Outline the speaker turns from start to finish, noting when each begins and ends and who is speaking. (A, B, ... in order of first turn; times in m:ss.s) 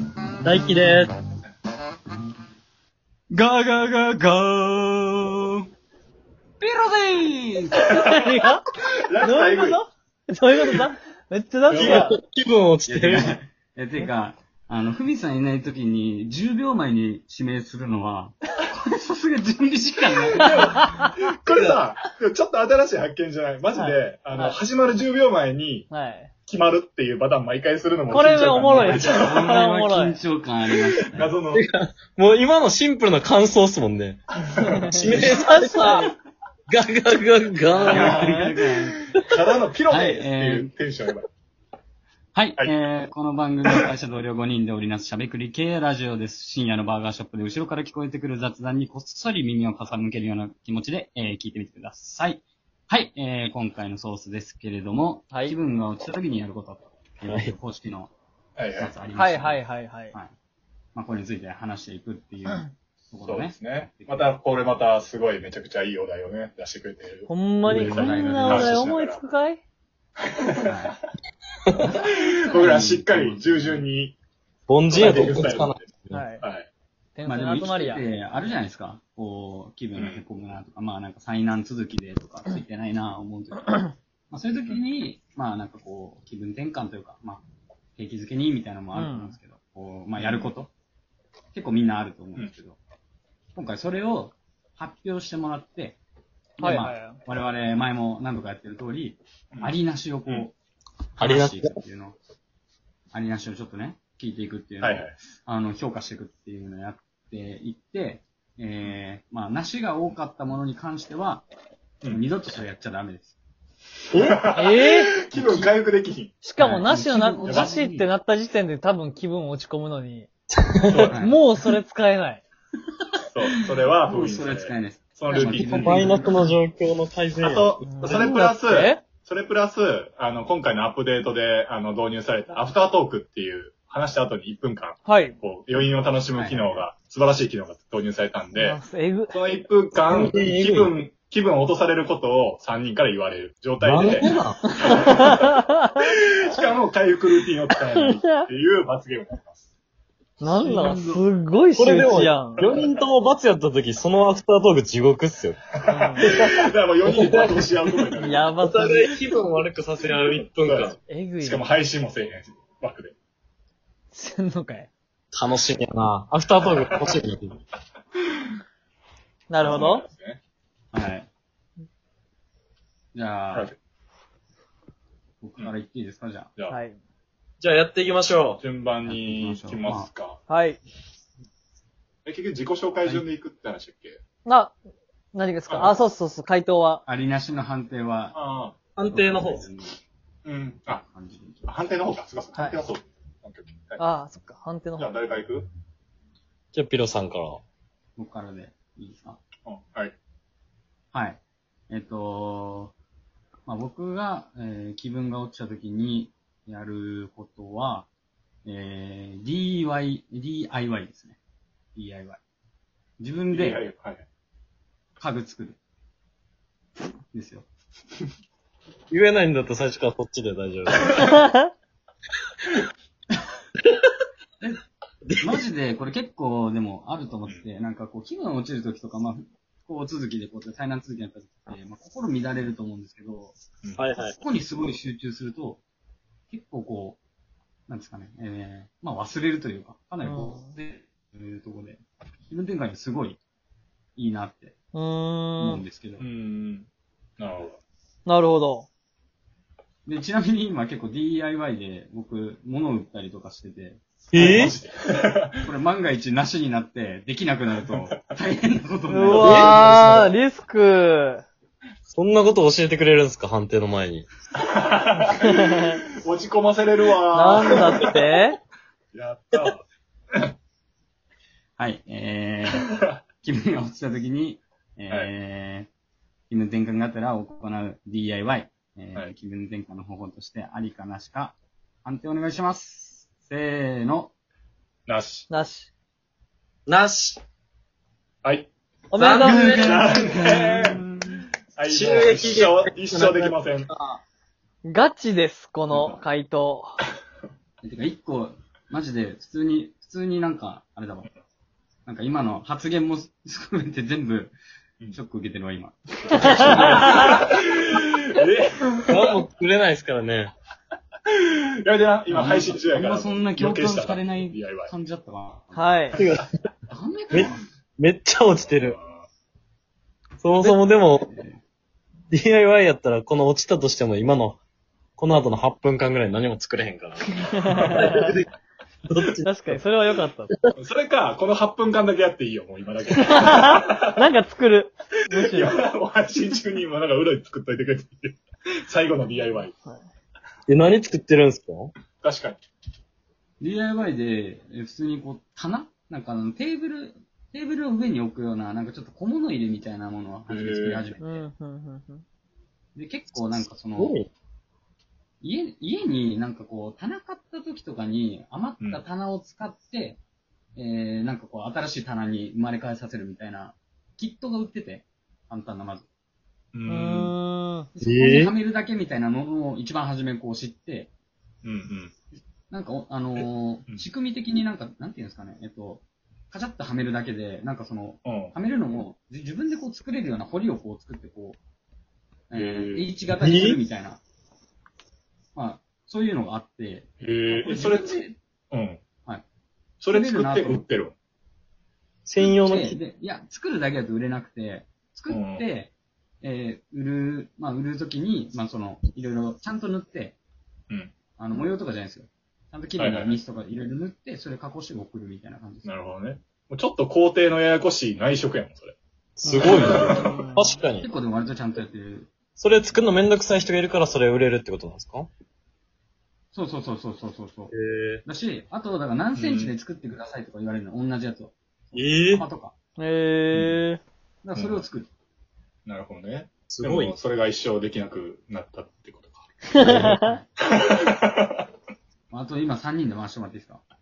0:00.4-0:01.1 A
0:03.3-0:05.6 B
0:06.6-0:08.1 B
0:07.9-0:08.6 C
0:08.9-0:09.8 D
0:09.2-0:12.2 C
0:11.7-0:12.1 D
0:11.7-0:13.3 A
0:12.9-0:20.7 B
0:20.4-0:21.8 A
0:20.4-0:25.9 D
0:20.5-0:21.0 C
0:23.8-0:24.6 C
0:25.9-0:26.3 C
0:26.5-0:29.4 D
0:28.1-0:30.2 C
0:28.5-0:31.3 B
0:31.2-0:31.7 D
0:31.5-0:34.2 A
0:34.5-0:36.1 C
0:34.9-0:36.1 A
0:36.7-0:38.3 A
0:37.7-0:39.0 B
0:37.9-0:38.6 C
0:39.3-0:41.3 D
0:39.9-0:40.8 B
0:42.3-0:58.1 B
0:58.6-0:59.0 D
0:58.8-1:00.3 B
0:59.1-1:00.1 C
1:01.0-1:04.3 B
1:03.2-1:09.2 D
1:07.3-1:09.6 C
1:07.7-1:08.8 B
1:10.3-1:10.9 D
1:10.6-1:11.0 B
1:11.8-1:13.9 B
1:12.0-1:14.2 D
1:14.7-1:16.2 A
1:14.9-1:15.8 D
1:16.1-1:16.4 C
1:16.4-1:16.7 D
1:17.1-1:18.1 C
1:17.2-1:27.4 B
1:20.0-1:20.2 D
1:28.0-1:30.7 B
1:29.0-1:29.4 C
1:30.2-1:30.5 D
1:31.5-1:32.8 B
1:33.6-1:36.0 B
1:36.6-1:40.5 B
1:36.6-1:37.2 C
1:41.2-1:42.2 B
1:41.2-1:41.8 A
1:43.1-1:51.4 B
1:44.8-1:45.1 D
1:52.1-1:53.4 B
1:54.1-1:54.4 A
1:54.2-1:56.4 D
1:54.5-1:55.1 C
1:55.3-1:55.7 B
1:56.4-2:00.3 C
1:56.6-1:58.1 B
1:57.4-1:57.7 D
2:00.6-2:01.1 A
2:00.9-2:01.2 D
2:01.1-2:01.4 B
2:01.1-2:02.4 C
2:03.3-2:06.2 D
2:04.0-2:06.6 B
2:05.4-2:08.4 A
2:07.4-2:18.8 D
2:07.8-2:09.0 C
2:15.0-2:15.4 C
2:16.3-2:16.8 B
2:18.5-2:19.4 C
2:19.3-2:25.5 D
2:20.0-2:20.9 A
2:23.8-2:24.7 A
2:24.7-2:26.1 C
2:26.0-2:29.6 D
2:27.9-2:28.5 C
2:30.4-2:32.6 C
2:30.6-2:31.2 B
2:31.8-2:38.1 A
2:32.6-2:32.9 D
2:35.8-2:36.4 C
2:35.8-2:38.5 D
2:38.2-2:39.1 C
2:38.6-2:41.0 A
2:40.3-2:43.1 D
2:41.1-2:41.7 C
2:44.1-2:44.9 C
2:45.3-2:47.5 A
2:46.8-2:47.1 D
2:49.5-2:50.0 C
2:49.6-2:50.4 D
2:50.9-2:51.3 B
2:53.1-2:53.7 B
2:55.4-2:56.5 B
2:56.7-2:57.0 C
2:57.6-2:58.6 A
2:58.6-3:00.4 D
2:59.0-3:00.1 B
3:00.5-3:00.8 C
3:02.2-3:04.2 D
3:04.4-3:04.7 C
3:05.3-3:07.0 C
3:05.7-3:06.0 D
3:07.1-3:08.4 B
3:08.3-3:08.7 D
3:09.0-3:09.6 A
3:09.1-3:10.0 B
3:10.4-3:11.0 D
3:10.9-3:11.8 B
3:11.7-3:14.0 D
3:12.5-3:12.8 C
3:14.0-3:15.1 C
3:15.0-3:15.7 D
3:16.7-3:17.6 A
3:18.2-3:19.4 B
3:19.7-3:20.2 D
3:21.1-3:22.9 B
3:23.7-3:28.1 B
3:28.7-3:31.4 B
3:32.0-3:32.4 B
3:33.2-3:33.8 B
3:33.5-3:34.2 D
3:35.2-3:35.8 B
3:37.3-3:37.7 B
3:39.1-3:41.3 A
3:41.3-3:41.7 C
3:45.2-3:45.6 A
3:45.4-3:53.6 B
3:54.0-3:54.4 A
3:54.2-3:55.8 B
3:56.5-3:57.2 B
3:57.9-4:03.4 B
4:00.2-4:00.7 C
4:04.2-4:04.8 B
4:04.9-4:05.8 C
4:05.6-4:06.2 B
4:06.2-4:06.9 D
4:07.4-4:07.8 D
4:08.2-4:08.9 C
4:10.0-4:20.3 B
4:14.3-4:14.7 A
4:14.3-4:15.7 D
4:19.1-4:21.4 C
4:19.4-4:20.3 A
4:22.1-4:24.3 A
4:24.6-4:28.1 D
4:25.3-4:26.0 C
4:27.3-4:28.6 C
4:29.1-4:29.8 D
4:31.8-4:35.9 B
4:36.5-4:44.3 B
4:45.1-4:45.5 D
4:45.5-4:45.9 C
4:46.9-4:47.4 A
4:48.4-4:48.7 D
4:49.1-4:49.8 C
4:49.2-4:50.1 A
4:49.5-4:51.0 B
4:49.7-4:53.9 D
4:51.9-4:54.2 A
4:54.8-4:57.0 C
4:55.9-4:56.2 D
4:57.8-5:01.3 B
5:02.1-5:04.6 B
5:05.1-5:07.6 B
5:06.4-5:07.3 C
5:06.5-5:09.2 D
5:09.1-5:10.5 A
5:11.3-5:14.9 D
5:12.3-5:15.9 B
5:15.7-5:16.2 C
5:16.2-5:16.5 A
5:16.9-5:17.6 B
5:17.3-5:19.0 A
5:18.8-5:19.3 D
5:20.4-5:21.3 A
5:21.2-5:21.6 B
5:22.3-5:24.6 A
5:25.2-5:28.4 A
5:27.4-5:28.4 C
5:29.1-5:29.8 A
5:29.4-5:30.5 C
5:30.8-5:34.1 D
5:33.2-5:35.8 C
5:35.4-5:39.7 D
5:40.7-5:41.9 A
5:42.2-5:42.6 D
5:43.6-5:51.4 B
5:50.5-5:51.0 D
5:51.2-5:52.2 C
5:52.9-5:54.2 B
5:53.9-5:54.3 A
5:55.4-6:00.2 B
6:00.8-6:06.1 B
6:06.7-6:07.3 D
6:06.9-6:07.9 C
6:08.0-6:11.1 B
6:08.0-6:08.6 A
6:11.6-6:12.1 D
6:12.7-6:21.6 B
6:18.2-6:18.5 D
6:22.5-6:24.2 B
6:22.6-6:23.1 D
6:23.4-6:23.8 A
6:25.6-6:28.4 B
6:27.2-6:28.1 D
6:28.7-6:29.0 D
6:30.0-6:31.2 D
6:30.1-6:30.9 B
6:32.2-6:33.0 A
6:32.4-6:40.4 B
6:35.3-6:35.6 D
6:41.4-6:45.9 B
6:43.0-6:43.4 D
6:45.8-6:49.0 D
6:49.4-6:51.1 A
6:49.4-6:50.7 C
6:49.6-6:50.3 D
6:50.8-6:52.3 B
6:52.6-6:55.3 A
6:56.5-7:02.7 B
6:57.7-6:58.2 A
6:59.4-6:59.7 D
7:01.9-7:02.5 A
7:03.0-7:04.0 C
7:04.4-7:05.1 B
7:04.6-7:04.8 D
7:05.9-7:09.5 D
7:06.7-7:07.2 A
7:09.8-7:10.3 C
7:09.8-7:10.5 B
7:10.7-7:11.6 D
7:12.3-7:13.8 B